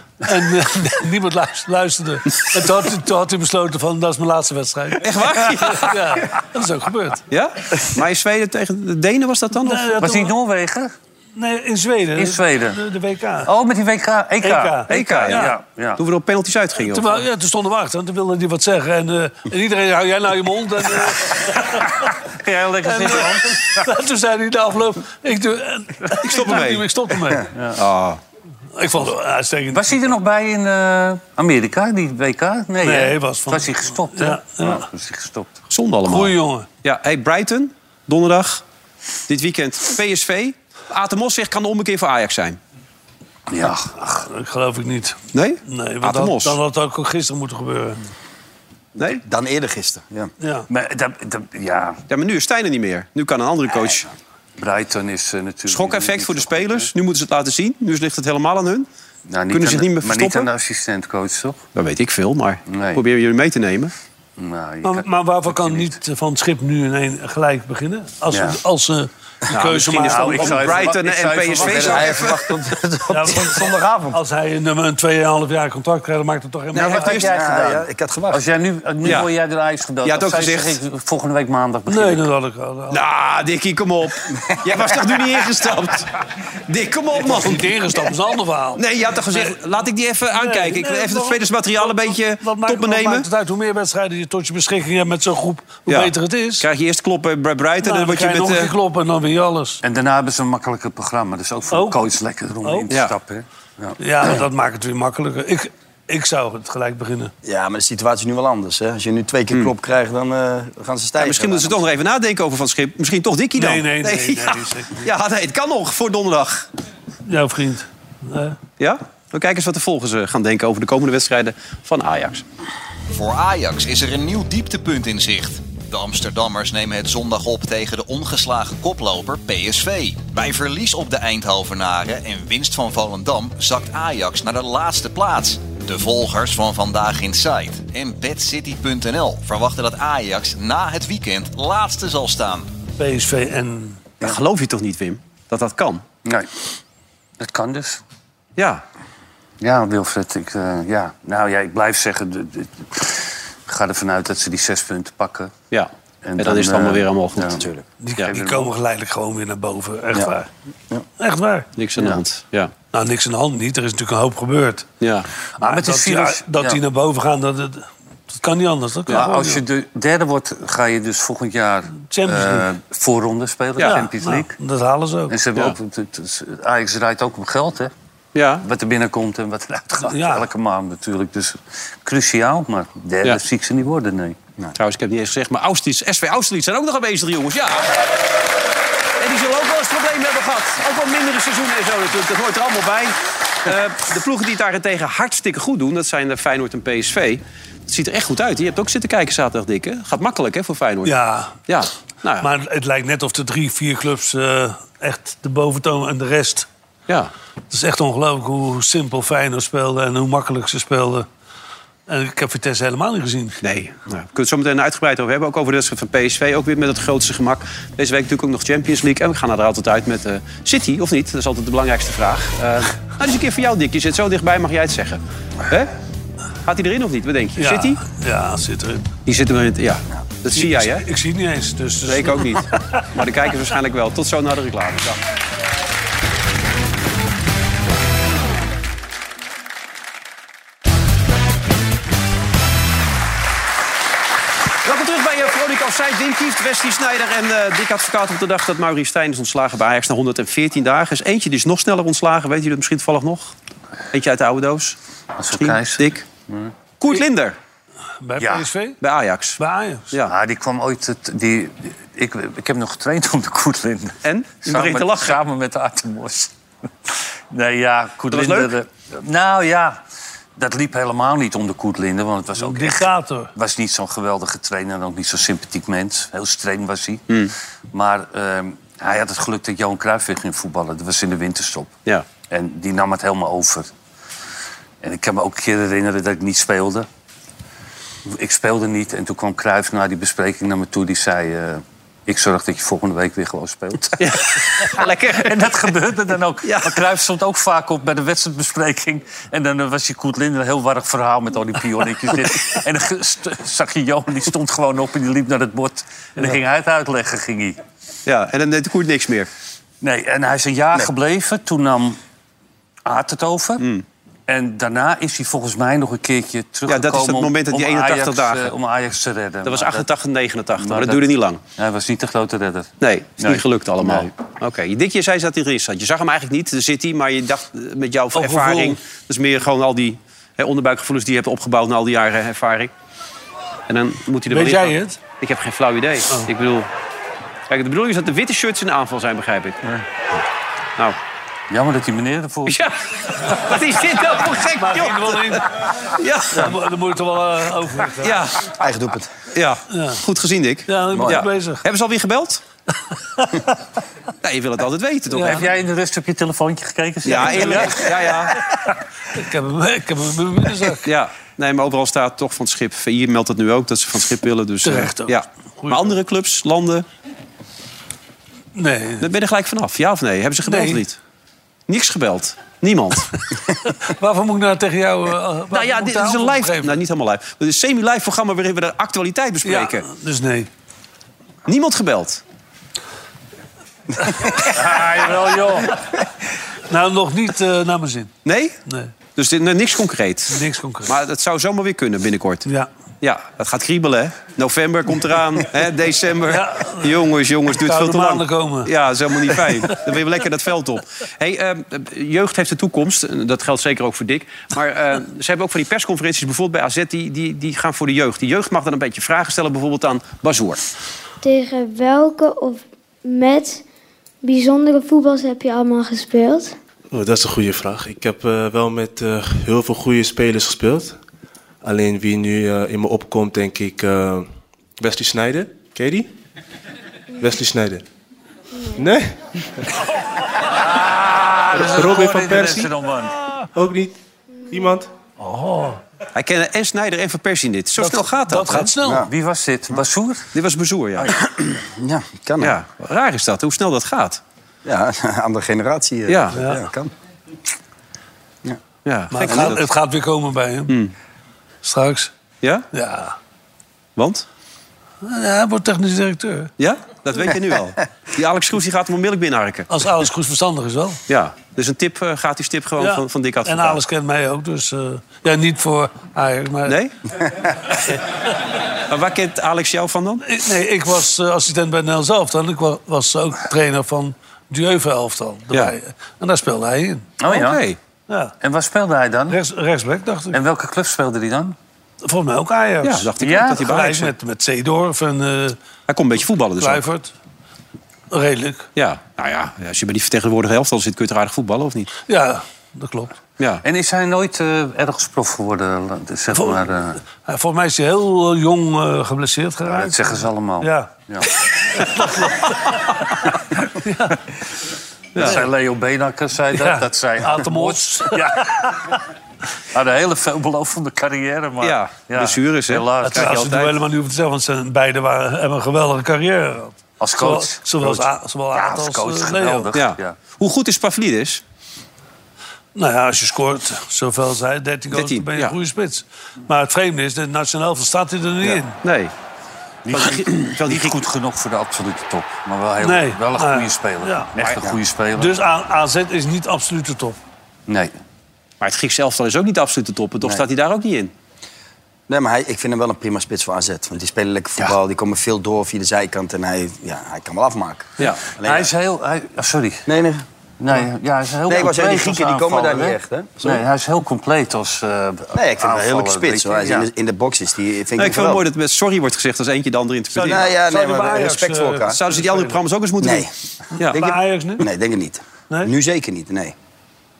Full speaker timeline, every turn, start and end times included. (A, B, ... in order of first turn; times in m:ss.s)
0:00.2-0:07.2 A
0:05.0-0:06.2 B
0:07.3-0:10.1 B
0:09.6-0:10.3 A
0:10.0-0:10.9 C
0:11.4-0:13.5 A
0:12.2-0:12.8 C
0:13.4-0:16.0 C
0:14.4-0:15.5 A
0:14.9-0:17.3 B
0:16.8-0:22.1 A
0:21.6-0:23.9 C
0:22.8-0:27.5 A
0:26.2-0:26.9 B
0:27.6-0:27.8 C
0:27.8-0:28.2 B
0:28.8-0:30.0 A
0:29.7-0:35.5 C
0:32.8-0:34.8 A
0:35.7-0:38.6 B
0:36.1-0:36.7 A
0:39.3-0:42.6 B
0:43.5-0:44.3 C
0:44.2-0:48.0 A
0:45.3-0:46.6 B
0:49.0-0:49.2 B
0:49.0-0:50.3 D
0:50.4-0:50.7 A
0:50.7-0:52.0 C
0:52.1-0:54.1 B
0:54.6-0:56.9 C
0:55.7-0:58.9 B
0:59.3-1:01.6 C
0:59.5-1:00.5 B
1:01.7-1:03.9 B
1:02.7-1:03.0 C
1:04.4-1:06.0 C
1:04.8-1:10.9 A
1:08.3-1:08.6 C
1:09.5-1:12.5 B
1:10.0-1:12.4 C
1:11.6-1:14.2 D
1:13.1-1:17.2 A
1:16.7-1:22.2 C
1:16.8-1:17.3 B
1:16.8-1:18.4 D
1:19.0-1:19.3 B
1:20.0-1:20.8 B
1:21.9-1:23.0 A
1:22.9-1:26.1 B
1:26.7-1:28.0 B
1:27.2-1:29.6 A
1:28.8-1:33.3 B
1:30.3-1:36.7 A
1:35.9-1:38.7 B
1:37.8-1:39.8 A
1:39.8-1:44.0 C
1:41.7-1:42.0 A
1:42.6-1:42.9 A
1:44.0-1:47.3 A
1:47.4-1:51.8 D
1:51.2-1:56.7 B
1:53.6-1:55.1 A
1:57.3-1:58.6 A
1:58.8-2:02.4 B
2:03.1-2:22.7 E
2:23.0-2:24.0 A
2:24.2-2:26.0 B
2:26.2-2:26.5 C
2:27.4-2:28.0 C
2:28.6-2:28.8 B
2:29.6-2:35.5 C
2:35.7-2:38.4 B
2:36.2-2:37.6 C
2:38.0-2:40.5 A
2:38.2-2:38.7 C
2:41.2-2:41.7 A
2:41.8-2:42.7 B
2:42.0-2:42.2 C
2:42.9-2:44.9 A
2:45.0-2:45.3 B
2:45.6-2:46.8 C
2:45.6-2:49.6 A
2:49.1-2:54.5 C
2:52.0-2:52.7 A
2:53.8-2:54.0 B
2:53.8-2:55.4 A
2:55.3-2:57.9 C
2:58.4-2:58.6 B
2:58.6-3:04.4 C
3:00.0-3:00.5 A
3:04.8-3:08.0 B
3:09.2-3:21.1 B
3:21.0-3:21.6 A
3:21.7-3:22.5 B
3:22.4-3:26.7 A
3:27.7-3:31.3 A
3:32.1-3:33.6 A
3:33.6-3:45.9 B
3:46.6-3:48.0 B
3:47.6-3:49.1 A
3:49.2-3:51.1 B
3:50.5-3:53.0 A
3:52.0-3:55.2 B
4:04.8-4:13.5 B
4:14.1-4:15.0 B
4:15.4-4:16.7 C
4:15.5-4:16.2 B
4:17.0-4:17.6 B
4:18.2-4:19.0 A
4:18.4-4:18.7 C
4:19.0-4:19.6 B
4:19.6-4:20.1 A
4:20.3-4:26.5 C
4:24.2-4:25.4 B
4:27.5-4:30.0 C
4:28.3-4:28.7 B
4:30.6-4:37.2 C
4:32.6-4:33.5 A
4:37.9-4:41.9 C
4:42.5-4:43.9 C
4:45.0-4:47.1 C
4:48.3-5:07.8 C
4:54.2-4:55.9 B
4:56.6-4:57.0 B
5:08.3-5:09.5 B
5:10.0-5:12.2 C
5:13.0-5:13.9 C
5:13.8-5:14.0 B
5:14.5-5:20.1 C
5:16.9-5:18.7 B
5:19.6-5:21.6 B
5:20.8-5:24.3 C
5:23.0-5:32.9 B
5:28.3-5:29.0 A
5:33.9-5:36.9 B
5:34.5-5:35.2 A
5:37.7-5:39.8 B
5:41.7-5:42.8 C
5:42.7-5:45.6 B
5:44.8-5:45.7 A
5:46.2-5:46.7 B
5:46.5-5:48.4 A
5:48.2-5:48.8 B
5:48.8-5:49.3 D
5:49.5-5:52.6 B
5:49.9-5:50.2 A
5:50.9-5:51.8 A
5:51.1-5:51.4 D
5:53.4-5:53.6 A
5:54.4-5:55.7 B
5:55.3-5:55.6 A
5:55.4-5:58.5 C
5:57.2-5:58.6 B
5:57.3-5:57.9 A
5:59.3-6:01.0 A
6:01.0-6:07.0 B
6:04.8-6:06.1 A
6:08.7-6:09.2 A
6:09.2-6:11.2 B
6:10.6-6:11.0 A
6:11.9-6:13.3 B
6:14.0-6:17.0 A
6:15.7-6:20.0 B
6:19.6-6:20.7 A
6:21.7-6:22.4 B
6:24.6-6:26.0 C
6:26.9-6:28.3 A
6:28.4-6:28.8 B
6:28.9-6:29.1 A
6:29.3-6:32.7 B
6:30.5-6:31.1 A
6:33.2-6:50.8 B
6:36.5-6:38.9 A
6:39.6-6:39.9 A
6:51.4-6:53.8 F
6:54.4-6:56.7 F
6:57.1-7:01.2 G
7:01.8-7:06.3 G
7:07.4-7:08.0 G
7:09.0-7:09.9 G
7:10.8-7:13.4 C
7:11.7-7:12.9 G
7:13.7-7:14.2 G
7:14.7-7:15.1 G
7:15.4-7:16.0 A
7:16.4-7:18.9 B
7:18.0-7:19.3 A
7:19.0-7:19.3 D
7:19.1-7:20.5 C
7:20.5-7:21.4 B
7:21.6-7:22.8 D
7:22.6-7:24.4 B
7:24.8-7:27.1 D
7:26.3-7:26.6 B
7:29.0-7:29.9 B
7:29.3-7:31.0 A
7:29.5-7:29.8 D
7:30.9-7:31.1 B
7:31.8-7:32.3 A
7:32.6-7:32.9 B
7:32.9-7:33.4 A
7:34.2-7:34.4 B
7:35.2-7:36.7 A
7:36.8-7:39.9 B
7:39.9-7:41.2 A
7:41.3-7:44.0 B
7:43.0-7:47.0 A
7:46.9-7:47.1 B
7:49.1-7:50.4 B
7:50.4-7:57.3 A
7:57.4-7:57.8 C
7:57.5-7:58.0 B
7:58.6-7:59.6 C
7:59.5-8:00.6 A
8:00.5-8:01.8 C
8:02.2-8:05.8 A
8:03.0-8:04.3 B
8:03.4-8:03.9 C
8:06.1-8:07.0 B
8:06.8-8:07.3 A
8:08.3-8:08.9 A
8:09.0-8:12.1 B
8:12.3-8:13.3 A
8:13.8-8:17.2 C
8:16.5-8:16.8 A
8:17.4-8:21.1 A
8:19.9-8:21.5 C
8:22.0-8:22.8 A
8:24.0-8:24.4 A
8:25.4-8:25.6 B
8:25.4-8:29.2 C
8:26.7-8:29.1 A
8:29.9-8:33.7 C
8:31.8-8:34.0 B
8:33.2-8:39.9 A
8:37.2-8:40.4 C
8:39.9-8:41.6 B
8:43.0-8:49.0 A
8:45.1-8:45.8 B
8:48.6-8:49.3 B
8:50.0-8:55.6 C
8:50.1-8:51.2 B
8:53.0-8:54.5 A
8:55.4-8:57.4 A
8:58.8-9:01.3 B
9:02.3-9:08.9 D
9:08.6-9:10.1 C
9:10.1-9:11.0 D
9:10.8-9:17.1 C
9:11.7-9:13.8 D
9:15.5-9:18.6 D
9:18.2-9:20.7 B
9:20.3-9:22.8 A
9:20.4-9:22.2 D
9:22.1-9:24.3 B
9:23.2-9:23.5 D
9:24.0-9:24.9 A
9:24.1-9:26.7 D